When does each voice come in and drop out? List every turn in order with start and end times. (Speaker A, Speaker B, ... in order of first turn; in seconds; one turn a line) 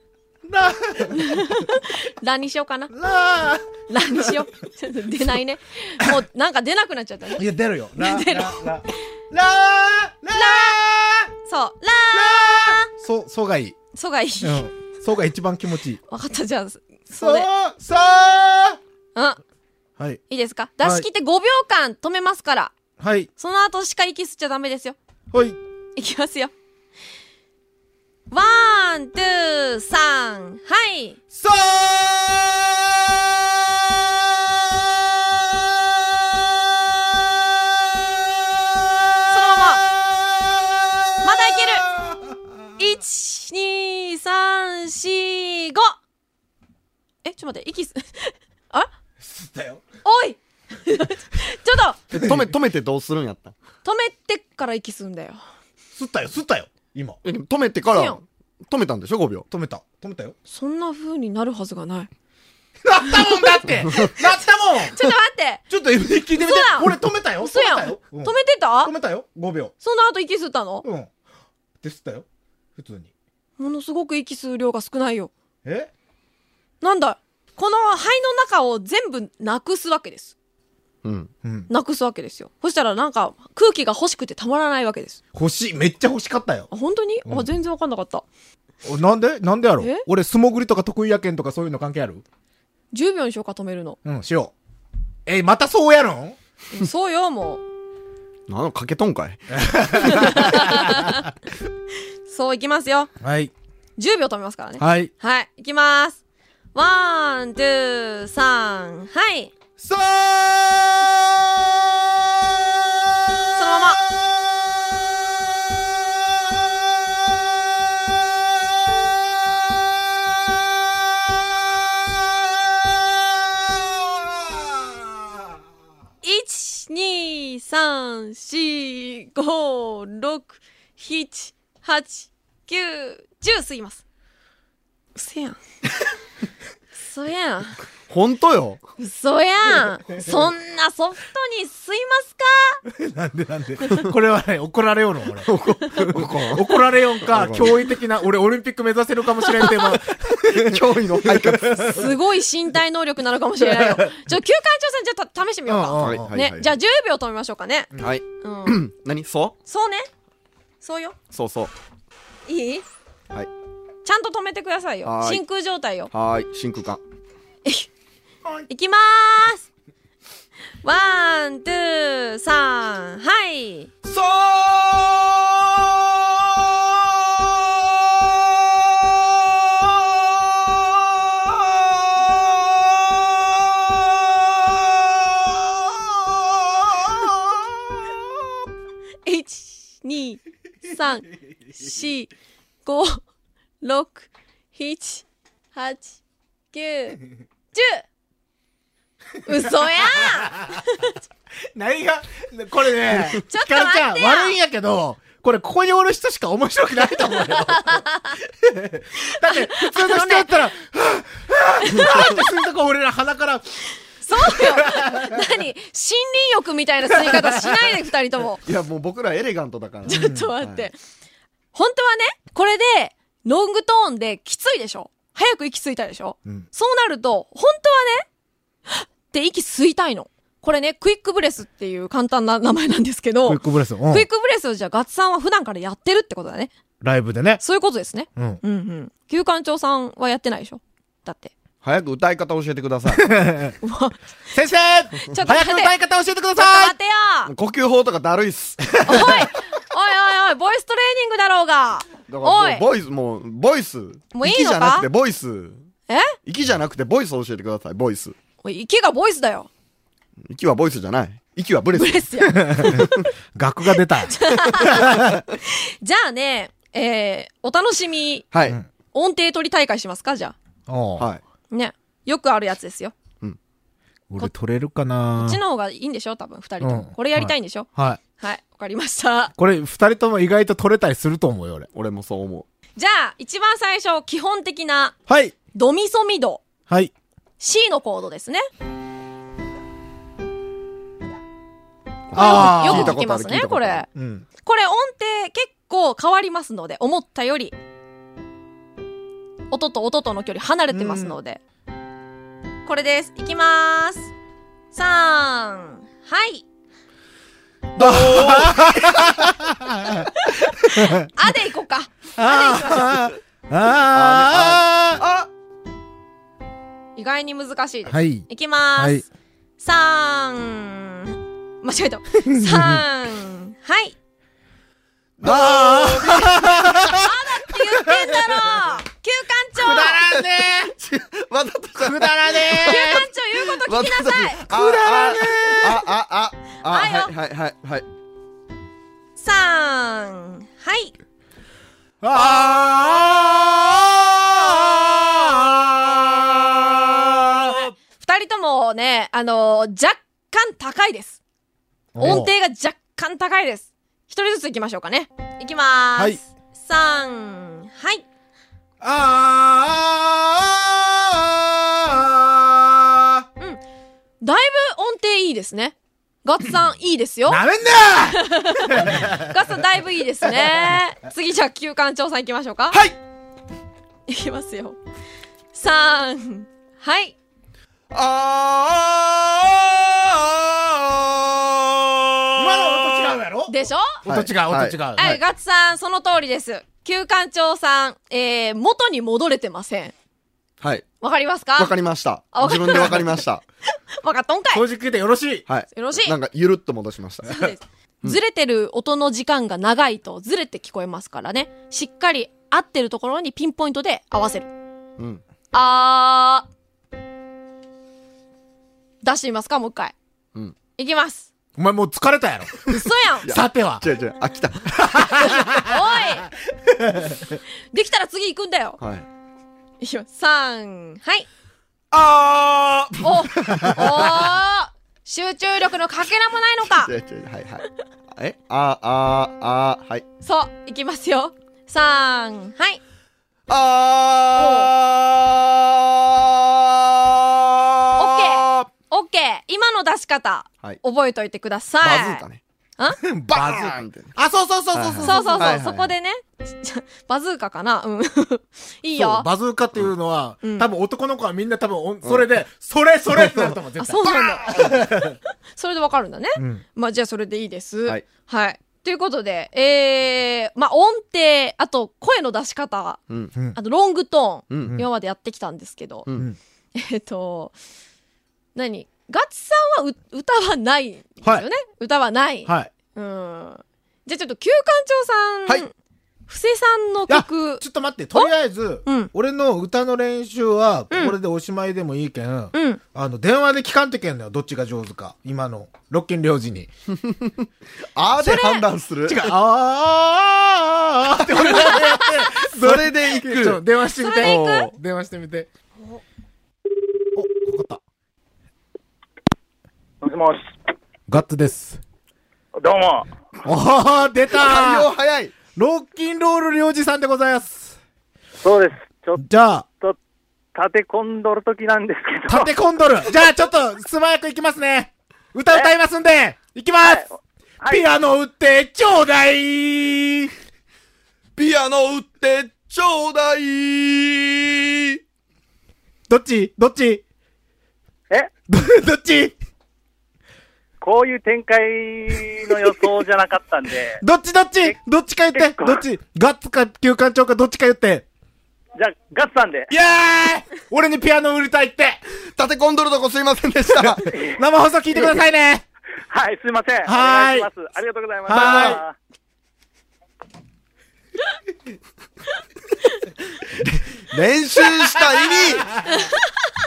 Speaker A: 0.5-1.5
Speaker B: 1.1-2.9
Speaker A: 2.9-4.3
Speaker B: 3.9-7.5
Speaker A: 7.3-11.3
Speaker B: 8.0-9.0
Speaker B: 10.3-10.8
Speaker B: 11.4-12.9
Speaker A: 12.1-13.8
Speaker B: 13.9-14.6
Speaker A: 14.4-16.0
Speaker B: 16.1-17.5
Speaker A: 17.2-18.8
Speaker B: 19.1-19.4
Speaker B: 20.3-22.7
Speaker A: 23.0-23.3
Speaker B: 23.4-24.9
Speaker A: 25.3-25.6
Speaker B: 26.0-26.5
Speaker B: 28.3-31.2
Speaker A: 31.3-36.2
Speaker A: 37.9-38.9
Speaker B: 39.3-39.9
Speaker A: 39.5-42.7
Speaker B: 41.2-41.9
Speaker B: 42.8-46.0
Speaker B: 47.2-48.9
Speaker A: 49.2-49.8
Speaker B: 50.0-52.0
Speaker C: 52.1-53.5
Speaker A: 52.1-52.4
Speaker B: 53.8-55.4
Speaker A: 55.9-57.2
Speaker C: 57.2-59.5
Speaker B: 57.9-58.2
Speaker A: 59.5-60.3
Speaker B: 60.5-62.1
Speaker A: 62.8-65.0
Speaker B: 63.1-63.4
Speaker B: 64.9-65.6
Speaker A: 65.7-69.7
Speaker B: 66.3-68.9
Speaker B: 69.8-70.8
Speaker A: 70.8-71.1
Speaker A: 71.8-73.1
Speaker B: 73.6-75.3
Speaker A: 75.6-75.9
Speaker B: 76.8-80.3
Speaker C: 81.0-81.3
Speaker A: 81.4-81.7
Speaker B: 81.7-85.2
Speaker A: 85.3-86.7
Speaker B: 86.7-88.2
Speaker A: 88.8-92.2
Speaker B: 89.8-90.0
Speaker B: 92.9-94.0
Speaker A: 94.0-94.5
Speaker A: 95.2-96.4
Speaker B: 96.7-97.6
Speaker C: 98.5-99.6
Speaker A: 99.5-101.2
Speaker B: 100.0-101.3
Speaker B: 102.2-103.1
Speaker A: 103.2-103.5
Speaker B: 104.0-106.2
Speaker A: 104.8-105.1
Speaker B: 106.7-109.5
Speaker A: 109.8-112.6
Speaker B: 113.5-114.0
Speaker A: 124.1-125.1
Speaker B: 126.2-134.0
Speaker B: 135.1-135.6
Speaker B: 136.9-137.8
Speaker C: 138.1-138.8
Speaker B: 139.0-142.8
Speaker A: 142.9-152.1
Speaker C: 145.4-146.7
Speaker C: 147.2-147.7
Speaker B: 149.5-149.9
Speaker C: 150.4-152.0
Speaker B: 151.8-158.8
Speaker A: 153.6-154.1
Speaker A: 155.7-156.3
Speaker C: 156.0-156.7
Speaker C: 158.0-159.5
Speaker B: 159.7-160.1
Speaker B: 160.8-161.2
Speaker C: 161.3-161.7
Speaker B: 162.5-162.8
Speaker B: 164.0-166.1
Speaker C: 165.0-165.4
Speaker C: 166.1-167.0
Speaker B: 168.7-169.7
Speaker B: 170.8-173.9
Speaker C: 174.0-187.5
Speaker B: 189.2-192.3
Speaker B: 192.8-193.2
Speaker B: 193.8-196.2
Speaker B: 196.7-197.2
Speaker B: 197.7-198.1
Speaker B: 199.4-201.2
Speaker A: 200.0-200.8
Speaker A: 201.7-213.8
Speaker B: 203.5-204.6
Speaker B: 207.5-208.4
Speaker B: 209.2-210.6
Speaker B: 211.8-212.3
Speaker B: 214.2-218.6
Speaker A: 214.4-215.4
Speaker A: 217.2-217.7
Speaker C: 218.6-220.9
Speaker B: 220.1-221.0
Speaker A: 220.1-220.5
Speaker B: 221.7-228.2
Speaker B: 228.9-236.7
Speaker A: 233.4-234.3
Speaker A: 237.0-237.6
Speaker B: 237.6-241.5
Speaker C: 241.8-243.3
Speaker A: 243.1-243.8
Speaker B: 243.8-244.5
Speaker A: 244.5-246.9
Speaker B: 245.2-245.9
Speaker B: 246.6-247.5
Speaker C: 247.4-248.9
Speaker A: 249.0-249.4
Speaker B: 249.0-252.8
Speaker C: 252.3-255.8
Speaker B: 254.3-255.1
Speaker B: 256.1-256.4
Speaker C: 256.4-258.3
Speaker B: 258.6-259.7
Speaker C: 260.4-263.1
Speaker B: 262.0-263.2
Speaker A: 262.5-265.4
Speaker B: 264.2-268.4
Speaker C: 268.5-268.8
Speaker B: 269.1-270.5
Speaker A: 270.9-271.3
Speaker B: 271.7-273.1
Speaker A: 274.3-275.6
Speaker B: 275.4-277.9
Speaker A: 276.8-278.2
Speaker B: 278.4-279.5
Speaker A: 279.6-281.9
Speaker C: 281.9-282.7
Speaker B: 283.0-285.1
Speaker A: 285.3-285.5
Speaker B: 285.7-286.6
Speaker B: 287.6-288.7
Speaker C: 292.3-294.0
Speaker A: 292.3-293.2
Speaker B: 292.3-294.1
Speaker A: 294.1-294.4
Speaker B: 294.6-297.7
Speaker B: 299.7-301.6
Speaker A: 300.9-301.3
Speaker B: 302.8-304.3
Speaker B: 304.9-306.6
Speaker C: 307.9-309.5
Speaker A: 308.0-311.3
Speaker B: 310.4-313.3
Speaker A: 312.4-315.2
Speaker C: 314.1-315.5
Speaker B: 317.1-319.2
Speaker A: 318.1-318.4
Speaker A: 319.0-319.2
Speaker B: 319.8-324.1
Speaker A: 322.4-323.0
Speaker C: 325.4-327.1
Speaker A: 325.4-328.8
Speaker B: 327.1-330.2
Speaker A: 329.8-330.9
Speaker C: 329.9-338.0
Speaker A: 332.0-333.2
Speaker B: 332.8-334.7
Speaker A: 334.7-336.0
Speaker B: 336.9-337.3
Speaker B: 339.4-341.1
Speaker A: 342.2-347.8
Speaker B: 348.0-351.4
Speaker A: 352.1-352.5
Speaker B: 352.2-358.2
Speaker A: 359.0-363.4
Speaker B: 364.4-367.6
Speaker A: 367.5-369.6
Speaker B: 368.3-373.0
Speaker C: 372.9-373.1
Speaker B: 374.3-375.0
Speaker B: 375.7-377.3
Speaker C: 378.1-383.4
Speaker A: 382.6-385.4
Speaker B: 383.7-384.2
Speaker C: 384.2-385.0
Speaker B: 385.1-390.1
Speaker C: 390.8-391.1
Speaker B: 391.2-391.9
Speaker C: 391.8-393.6
Speaker B: 392.5-393.4
Speaker B: 394.2-394.8
Speaker A: 394.7-395.6
Speaker C: 395.7-397.6
Speaker B: 395.9-396.3
Speaker B: 397.4-404.7
Speaker B: 405.7-406.7
Speaker B: 409.2-410.1
Speaker B: 411.0-411.5
Speaker A: 411.8-412.9
Speaker B: 412.9-413.5
Speaker C: 413.4-415.1
Speaker A: 413.4-414.0
Speaker A: 414.9-416.1
Speaker B: 415.4-416.5
Speaker A: 416.7-417.6
Speaker B: 417.9-419.0
Speaker C: 419.0-419.2
Speaker B: 420.0-421.5
Speaker C: 422.1-424.4
Speaker B: 423.2-427.1
Speaker C: 426.9-430.2
Speaker B: 430.4-433.0
Speaker C: 433.7-438.9
Speaker B: 434.6-434.9
Speaker B: 438.2-442.4
Speaker C: 442.0-442.6
Speaker A: 443.2-445.8
Speaker C: 443.5-444.3
Speaker C: 444.9-446.1
Speaker B: 445.2-449.5
Speaker A: 449.2-455.4
Speaker B: 450.6-450.9
Speaker C: 453.4-453.7
Speaker B: 454.0-455.2
Speaker B: 455.7-463.2
Speaker A: 456.6-456.8
Speaker B: 463.7-466.3
Speaker C: 464.7-465.0
Speaker B: 466.9-467.7
Speaker B: 468.7-475.9
Speaker A: 472.6-472.9
Speaker B: 476.5-477.8
Speaker A: 477.3-486.9
Speaker B: 479.0-479.3
Speaker B: 481.1-481.4
Speaker B: 482.7-483.0
Speaker C: 487.1-489.5
Speaker B: 488.4-488.9
Speaker A: 489.3-495.7
Speaker C: 492.6-493.8
Speaker B: 494.2-494.9
Speaker C: 494.4-494.9
Speaker A: 497.3-498.0
Speaker D: 500.2-500.7
Speaker A: 501.3-502.0
Speaker D: 502.8-503.3
Speaker A: 503.6-505.1
Speaker C: 504.5-505.5
Speaker A: 505.8-507.9
Speaker D: 508.6-509.4
Speaker A: 509.4-509.9
Speaker D: 510.7-512.7
Speaker A: 512.5-517.2
Speaker A: 517.9-520.5
Speaker C: 521.5-525.2
Speaker A: 526.3-527.2
Speaker A: 528.7-529.5
Speaker D: 531.0-534.2
Speaker A: 534.2-538.2
Speaker D: 535.5-536.0
Speaker D: 539.0-539.9
Speaker A: 539.9-542.2
Speaker C: 542.6-544.2
Speaker A: 544.0-545.8
Speaker D: 544.3-544.6
Speaker D: 546.3-549.1
Speaker A: 547.0-547.7
Speaker A: 548.5-549.0
Speaker C: 553.8-555.9
Speaker A: 555.2-556.3